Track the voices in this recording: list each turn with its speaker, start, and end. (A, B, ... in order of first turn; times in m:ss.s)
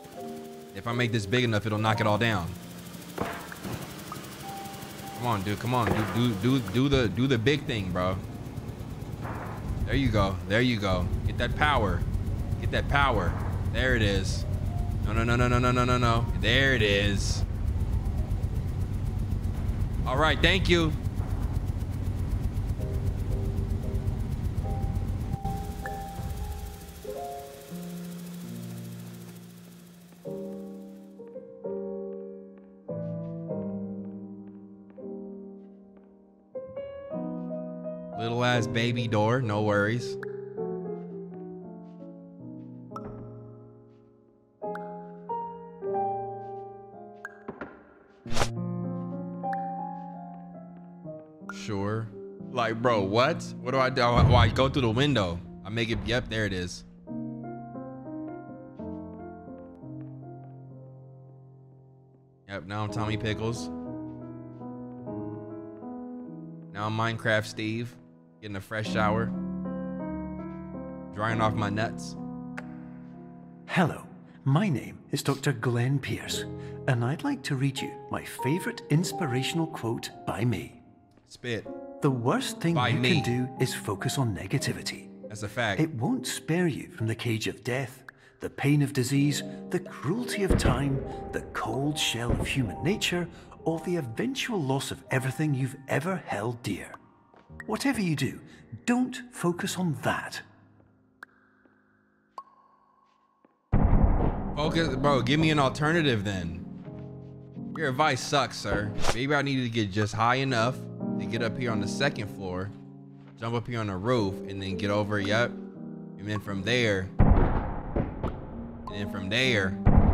0:00.7-0:02.6 A
0:05.2-0:08.2 A
0:09.9-0:12.1 A
0:12.6-0:14.5 A
0:15.0-0:17.5 A
0:20.1-0:21.0 A
0:38.2-0:40.2 A
0:51.5-0:56.9 A
1:02.5-1:03.7 A
1:06.7-1:09.3 A
1:11.1-1:12.2 A
1:13.7-1:20.8 B
1:21.3-1:21.7 A
1:22.0-1:25.1 B
1:22.7-1:23.4 A
1:25.3-1:25.9 A
1:25.8-1:37.0 B
1:37.7-1:40.4 B
1:44.6-1:46.6 A
1:47.7-1:52.7 A
1:53.4-1:55.6 A
1:56.2-1:57.1 A
1:58.9-1:59.8 A